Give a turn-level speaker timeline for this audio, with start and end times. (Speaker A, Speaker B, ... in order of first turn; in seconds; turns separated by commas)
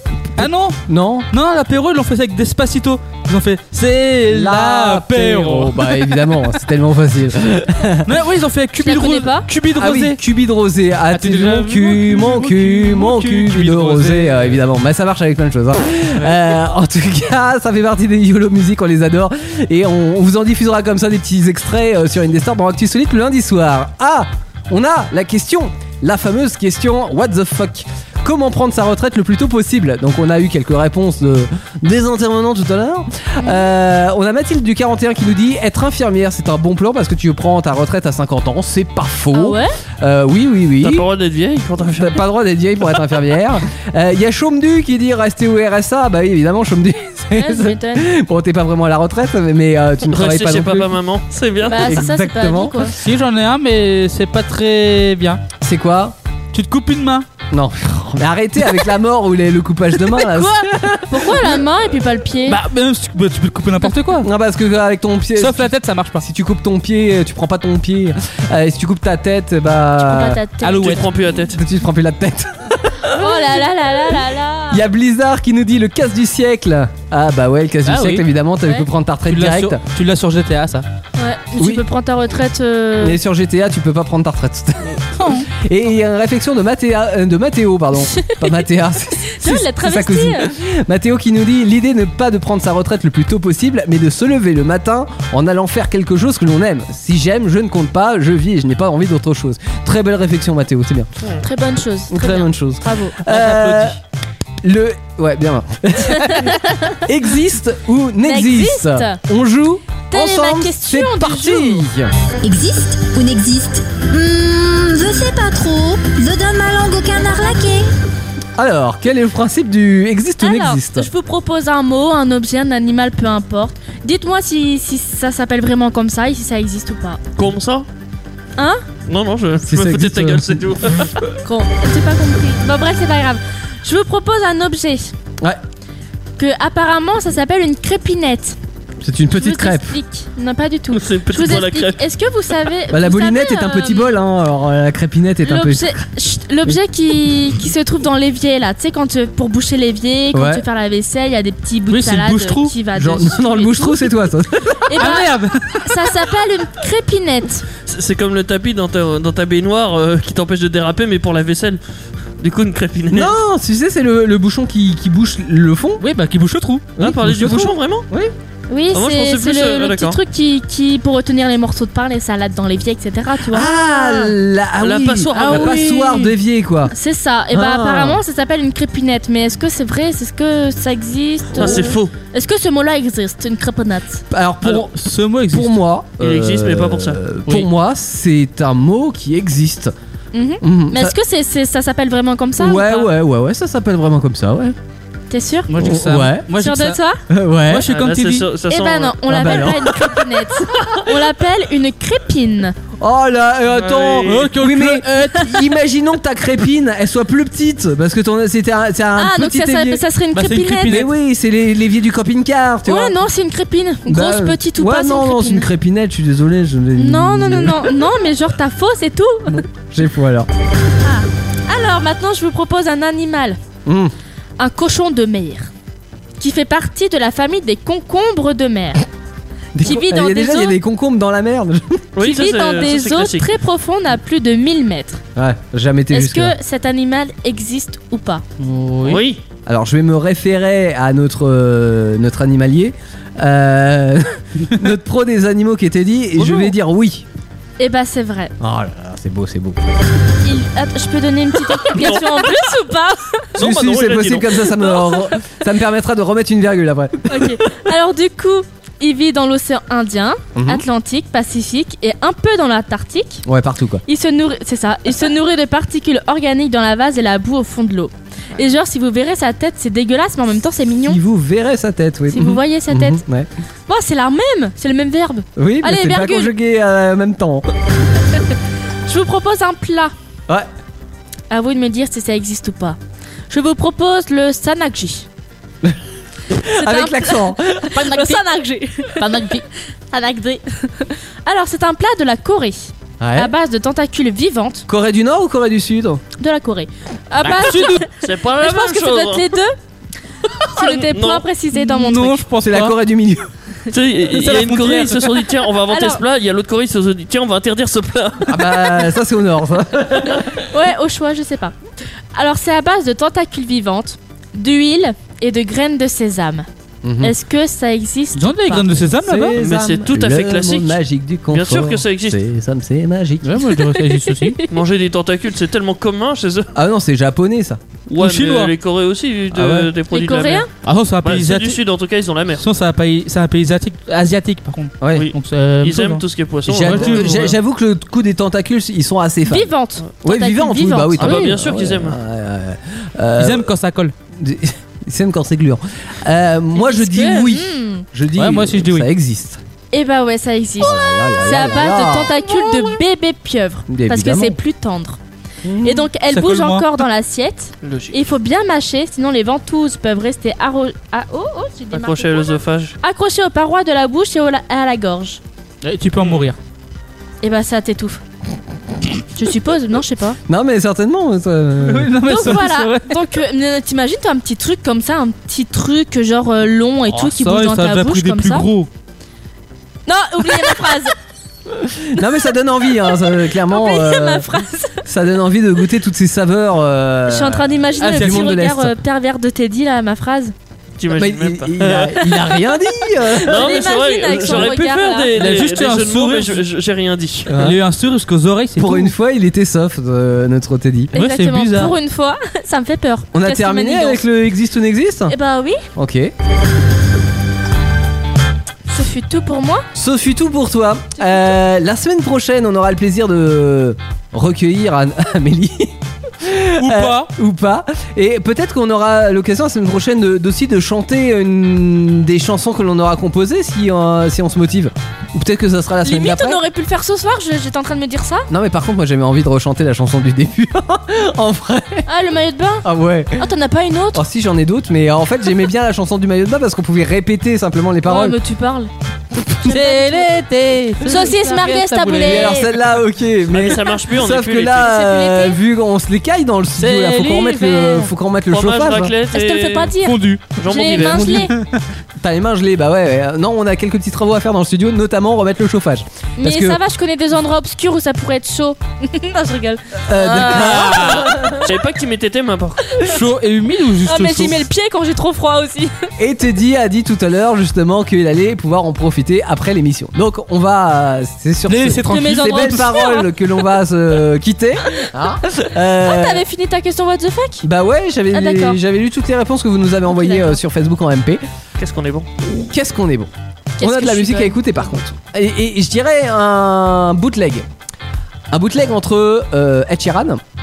Speaker A: 0.4-0.8, Speaker B: 0.4-1.3, Speaker A: 1.3-6.3, Speaker B: 4.3-8.1, Speaker A: 8.0-10.2, Speaker C: 8.8-9.5, Speaker B: 9.7-41.0, Speaker A: 11.1-14.6, Speaker C: 33.4-33.7, Speaker C: 39.3-39.7, Speaker D: 40.8-42.2, Speaker B: 42.0-50.9, Speaker C: 47.3-48.1, Speaker D: 50.1-51.9, Speaker C: 51.6-52.9, Speaker B: 51.8-52.9, Speaker A: 53.0-55.4, Speaker B: 55.6-56.1, Speaker A: 56.5-57.2, Speaker B: 57.5-61.6, Speaker C: 60.1-62.6, Speaker A: 62.4-64.3, Speaker B: 64.2-70.4, Speaker A: 65.3-66.2, Speaker C: 70.0-71.0, Speaker A: 70.6-71.0, Speaker D: 70.7-71.6, Speaker B: 71.4-73.7, Speaker C: 73.1-74.8, Speaker B: 74.7-79.8, Speaker A: 77.8-78.3, Speaker A: 79.2-80.8, Speaker C: 81.2-83.2, Speaker B: 81.6-81.8, Speaker B: 83.0-101.1, Speaker A: 85.2-85.5, Speaker C: 88.1-88.5, Speaker C: 89.3-90.5, Speaker C: 101.4-103.2, Speaker B: 102.1-104.0, Speaker A: 103.2-104.0, Speaker B: 104.6-112.1, Speaker C: 106.0-107.0, Speaker C: 108.2-109.2, Speaker C: 110.1-111.8, Speaker E: 112.4-117.9, Speaker B: 118.6-121.1, Speaker C: 120.4-127.2, Speaker D: 127.4-127.8, Speaker C: 128.6-128.8, Speaker D: 129.1-131.1, Speaker B: 129.6-131.2, Speaker C: 131.4-135.1, Speaker C: 136.4-138.6, Speaker B: 139.0-139.9, Speaker C: 139.3-144.1, Speaker D: 140.9-142.0, Speaker B: 142.9-146.0, Speaker C: 145.4-154.2, Speaker B: 150.3-150.6, Speaker A: 151.9-152.7, Speaker B: 152.9-155.0, Speaker C: 154.8-155.3, Speaker A: 154.9-155.9, Speaker C: 155.8-157.6, Speaker D: 157.9-161.8, Speaker D: 162.4-163.3, Speaker B: 163.1-166.0, Speaker A: 166.0-166.9, Speaker D: 167.0-168.1, Speaker B: 167.0-168.3, Speaker C: 168.7-173.7, Speaker D: 168.9-170.2, Speaker B: 173.4-176.9, Speaker D: 174.0-174.3, Speaker D: 174.8-175.8, Speaker A: 175.3-176.3, Speaker C: 176.9-184.2, Speaker B: 177.5-178.2, Speaker D: 181.5-182.1, Speaker B: 184.3-184.9, Speaker A: 184.7-185.7, Speaker B: 185.5-189.9, Speaker D: 186.2-187.2, Speaker C: 190.3-193.1, Speaker B: 190.6-191.2, Speaker B: 192.6-194.8, Speaker C: 195.3-195.7, Speaker A: 195.7-197.0, Speaker B: 195.8-196.5, Speaker C: 196.6-197.2, Speaker B: 197.3-197.8, Speaker A: 197.7-198.5, Speaker D: 197.9-199.5, Speaker C: 198.7-202.7, Speaker B: 199.3-201.1, Speaker B: 203.0-210.0, Speaker A: 203.8-205.6, Speaker D: 203.8-204.5, Speaker C: 209.2-211.0, Speaker A: 210.3-211.1, Speaker B: 210.8-213.2, Speaker C: 212.8-215.7, Speaker B: 214.1-218.0, Speaker C: 217.0-219.6, Speaker B: 219.5-220.5, Speaker C: 221.0-223.6, Speaker B: 223.8-224.1, Speaker C: 224.6-225.7, Speaker C: 226.4-229.0, Speaker B: 229.7-232.1, Speaker C: 229.8-230.8, Speaker D: 232.2-233.5, Speaker C: 232.2-235.2, Speaker B: 235.3-236.6, Speaker C: 236.1-238.4, Speaker A: 238.6-239.2, Speaker D: 239.0-239.4, Speaker B: 239.7-247.2, Speaker C: 247.8-248.5, Speaker B: 248.6-249.8, Speaker C: 250.4-253.4, Speaker D: 251.9-252.5, Speaker D: 253.5-254.8, Speaker B: 253.6-257.6, Speaker C: 257.3-263.4, Speaker B: 260.5-260.8, Speaker B: 263.4-264.0, Speaker C: 264.1-271.2, Speaker B: 271.1-273.5, Speaker C: 272.3-273.2, Speaker C: 273.9-276.5, Speaker B: 275.6-277.7, Speaker C: 279.1-280.1, Speaker C: 281.5-283.0, Speaker C: 283.5-285.2, Speaker B: 286.5-288.4, Speaker C: 286.6-294.9, Speaker B: 293.2-293.5, Speaker B: 294.9-296.2, Speaker C: 296.4-299.7, Speaker A: 297.4-298.1, Speaker D: 298.2-299.5, Speaker C: 300.6-302.4, Speaker D: 300.8-301.4, Speaker A: 301.7-302.9, Speaker B: 302.6-303.5, Speaker D: 303.9-308.7, Speaker A: 304.3-305.4, Speaker C: 305.9-306.2, Speaker B: 308.5-310.5, Speaker C: 310.6-311.8, Speaker C: 312.3-316.6, Speaker B: 317.0-317.3, Speaker C: 317.2-318.9, Speaker A: 318.3-319.5, Speaker B: 319.2-323.7, Speaker D: 319.5-321.0, Speaker D: 321.5-322.4, Speaker A: 323.4-324.6, Speaker C: 323.7-324.6, Speaker D: 324.7-326.7, Speaker B: 326.7-327.8, Speaker D: 328.1-330.7, Speaker A: 328.2-328.7, Speaker B: 329.5-329.9, Speaker C: 330.1-330.7, Speaker A: 330.8-331.8, Speaker D: 331.2-332.6, Speaker A: 332.6-337.5, Speaker B: 335.0-335.3, Speaker D: 335.1-337.5, Speaker B: 336.7-339.7, Speaker C: 339.5-341.4, Speaker B: 340.2-343.7, Speaker D: 341.2-342.2, Speaker A: 343.4-344.1, Speaker B: 344.4-349.6, Speaker C: 346.8-348.1, Speaker A: 348.4-349.1, Speaker C: 349.9-355.2, Speaker B: 350.8-352.4, Speaker A: 352.5-353.0, Speaker B: 353.9-354.6, Speaker B: 355.6-356.1, Speaker C: 355.8-365.4, Speaker A: 356.3-357.0, Speaker D: 357.8-358.2, Speaker D: 361.9-362.9, Speaker A: 365.8-366.6, Speaker C: 367.4-368.2, Speaker C: 369.3-370.4, Speaker B: 370.5-372.7, Speaker A: 371.8-373.2, Speaker C: 372.2-378.7, Speaker A: 377.1-378.9, Speaker C: 380.1-381.1, Speaker B: 381.7-384.5, Speaker C: 382.9-385.0, Speaker B: 385.0-388.9, Speaker C: 387.3-390.5, Speaker A: 388.0-388.5, Speaker D: 391.0-392.3, Speaker B: 391.1-393.9, Speaker C: 392.2-395.3, Speaker D: 393.4-397.6, Speaker A: 395.3-396.6, Speaker B: 397.5-397.8, Speaker A: 397.5-399.1, Speaker B: 398.8-401.1, Speaker A: 401.1-401.9, Speaker C: 401.1-404.2, Speaker B: 403.3-405.4, Speaker C: 405.3-405.8, Speaker B: 405.9-406.3, Speaker C: 408.9-409.8, Speaker B: 409.9-426.6, Speaker A: 416.8-417.3, Speaker C: 426.0-428.5, Speaker B: 428.5-432.1, Speaker C: 432.1-434.2, Speaker B: 432.8-433.5, Speaker B: 434.1-438.4, Speaker C: 438.0-438.9, Speaker A: 439.6-442.6, Speaker C: 439.6-440.3, Speaker C: 441.0-442.7, Speaker B: 442.2-449.1, Speaker D: 443.5-445.0, Speaker C: 444.7-445.6, Speaker A: 446.8-448.0, Speaker D: 448.5-450.0, Speaker C: 449.3-451.5, Speaker A: 450.0-451.8, Speaker D: 450.6-451.5, Speaker B: 451.1-451.5, Speaker B: 452.2-456.8, Speaker C: 456.4-461.3, Speaker B: 460.1-461.7, Speaker A: 460.6-461.3, Speaker D: 461.4-463.1, Speaker A: 463.0-464.7, Speaker C: 464.0-465.9, Speaker B: 466.2-476.4, Speaker A: 471.7-473.0, Speaker C: 472.1-473.3, Speaker C: 476.0-477.6, Speaker B: 477.6-481.4, Speaker C: 478.3-478.8, Speaker C: 480.1-480.6, Speaker D: 481.8-482.3, Speaker B: 482.4-487.6, Speaker C: 483.8-484.6, Speaker B: 488.5-490.4